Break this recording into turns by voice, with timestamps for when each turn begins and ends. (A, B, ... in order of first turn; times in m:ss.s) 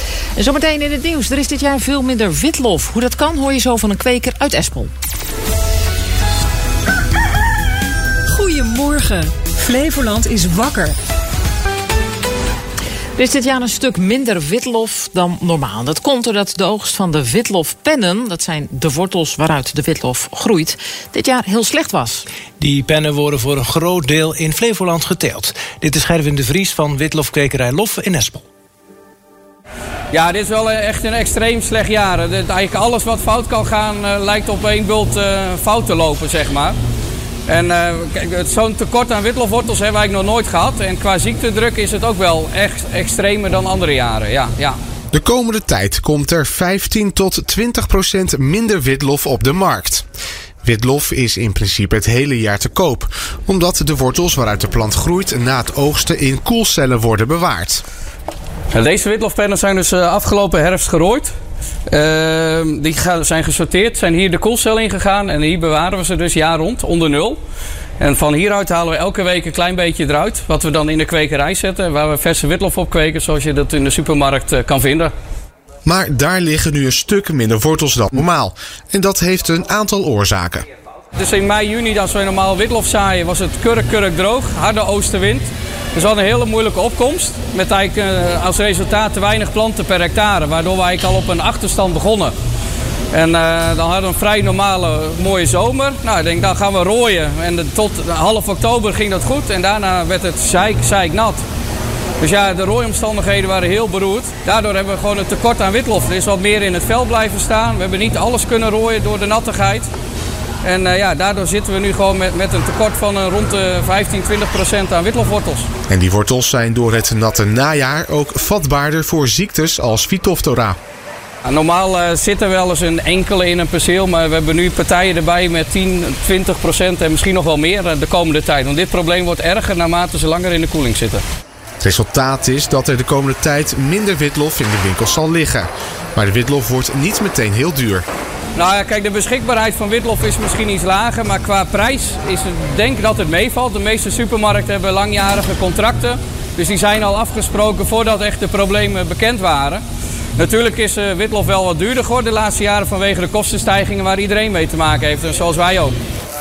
0:00.4-0:04.9 A
0:08.4-0:10.9 B
0:13.2-0:22.2 A
0:22.6-0:28.4 C
0:30.1-0:36.8 D
0:37.5-0:44.8 D
0:45.1-0:50.0 E
0:50.6-0:57.8 E
0:58.7-1:01.3 D
1:01.9-1:07.4 D
1:08.0-1:15.1 D
1:15.8-1:20.6 E
1:21.2-1:32.3 D
1:33.1-1:41.4 D
1:42.2-1:49.9 D
1:50.6-1:55.7 D
1:55.9-2:00.8 E
2:01.5-2:11.2 D
2:11.8-2:18.0 E
2:18.6-2:29.8 D
2:30.4-2:36.0 D